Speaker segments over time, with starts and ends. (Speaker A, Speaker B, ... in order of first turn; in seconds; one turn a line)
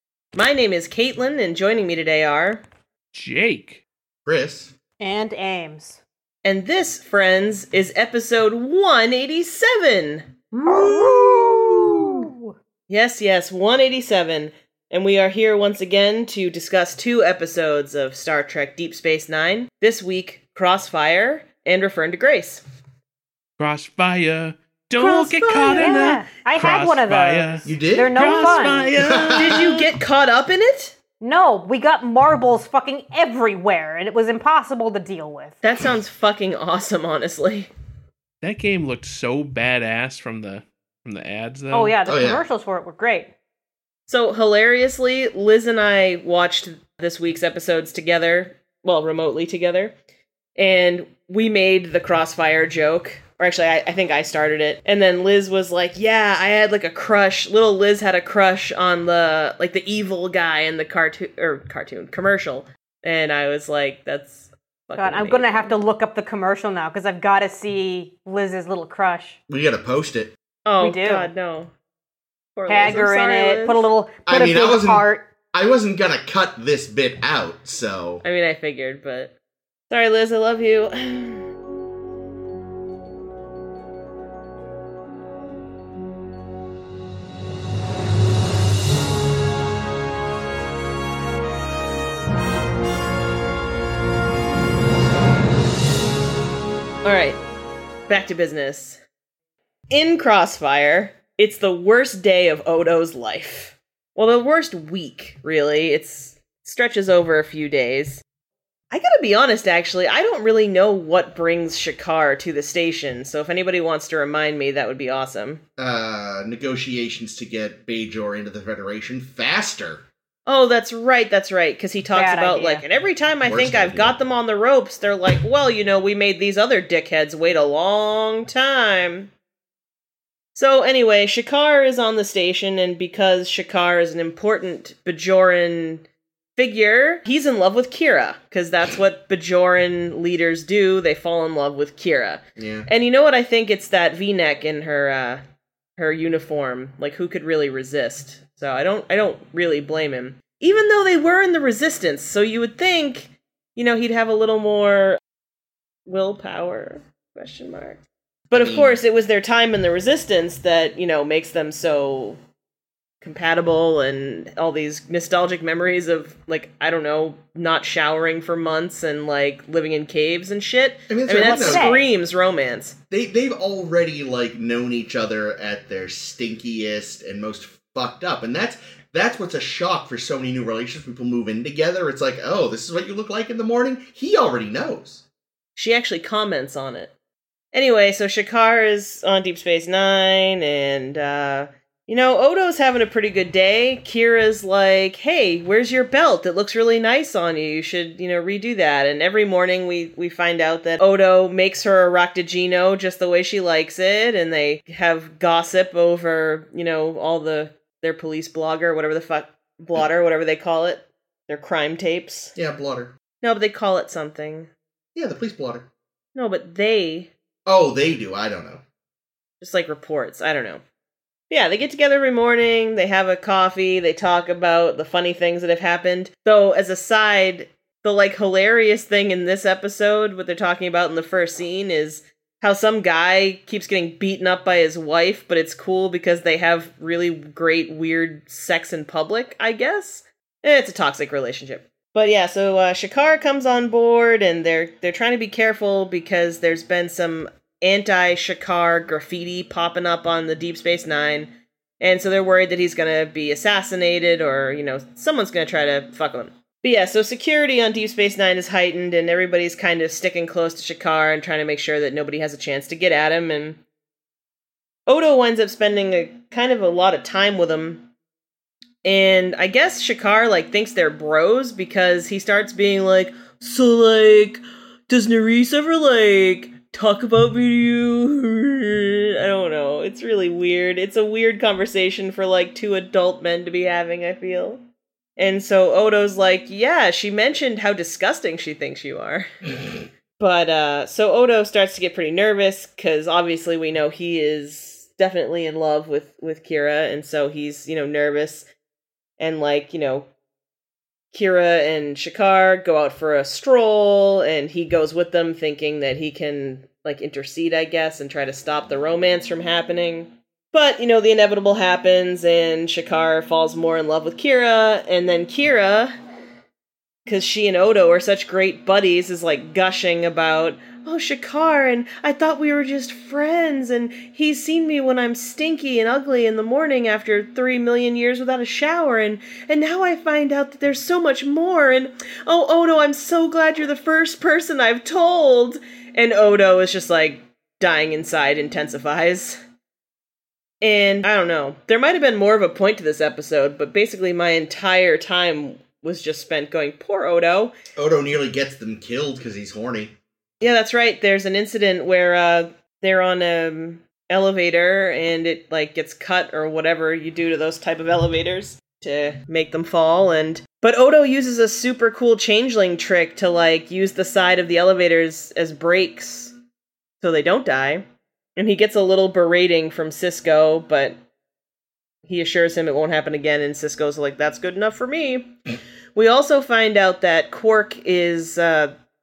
Speaker A: 0.3-2.6
Speaker B: 3.1-3.8
Speaker C: 4.3-4.7
Speaker D: 5.0-6.0
Speaker A: 6.4-10.3
Speaker D: 10.5-12.6
Speaker C: 10.7-12.2
Speaker A: 12.9-22.6
Speaker B: 23.6-29.7
Speaker A: 25.0-26.1
Speaker D: 25.4-28.9
Speaker C: 27.6-29.8
Speaker A: 29.1-31.0
Speaker D: 31.2-35.6
Speaker A: 35.6-37.7
Speaker B: 38.4-42.0
Speaker D: 41.7-43.3
Speaker C: 42.0-42.4
Speaker A: 44.1-50.0
Speaker A: 50.6-65.8
Speaker D: 65.0-69.4
Speaker C: 69.5-70.3
Speaker A: 70.7-71.7
Speaker D: 70.8-71.3
Speaker A: 72.6-73.9
Speaker D: 72.7-75.3
Speaker C: 74.3-78.2
Speaker A: 78.2-79.3
Speaker A: 79.9-81.5
Speaker A: 97.0-97.4
Speaker A: 98.1-99.0
Speaker A: 99.9-108.2
Speaker A: 108.9-115.6
Speaker C: 115.8-120.0
Speaker A: 120.5-129.3
Speaker D: 122.1-122.9
Speaker C: 123.5-124.2
Speaker A: 130.6-145.4
Speaker C: 142.6-142.9
Speaker A: 146.0-155.2
Speaker A: 156.1-162.4
Speaker C: 158.5-159.0
Speaker A: 163.2-173.0
Speaker C: 171.1-172.0
Speaker D: 171.3-172.1
Speaker C: 173.1-185.2
Speaker A: 185.8-187.1
Speaker A: 187.7-212.5
Speaker C: 212.6-213.2
Speaker A: 213.4-214.7
Speaker C: 215.2-215.9
Speaker A: 216.3-217.3
Speaker C: 217.7-218.8
Speaker A: 219.6-220.8
Speaker A: 221.5-263.8
Speaker A: 265.1-268.1
Speaker A: 269.0-284.8
Speaker A: 285.4-289.5
Speaker A: 290.4-298.7
Speaker A: 299.4-300.3
Speaker A: 301.3-316.1
Speaker A: 317.3-339.6
Speaker A: 340.8-347.8
Speaker C: 348.0-350.1
Speaker A: 350.6-366.5
Speaker A: 367.2-368.1
Speaker A: 368.6-371.2
Speaker A: 372.2-375.6
Speaker A: 376.1-378.9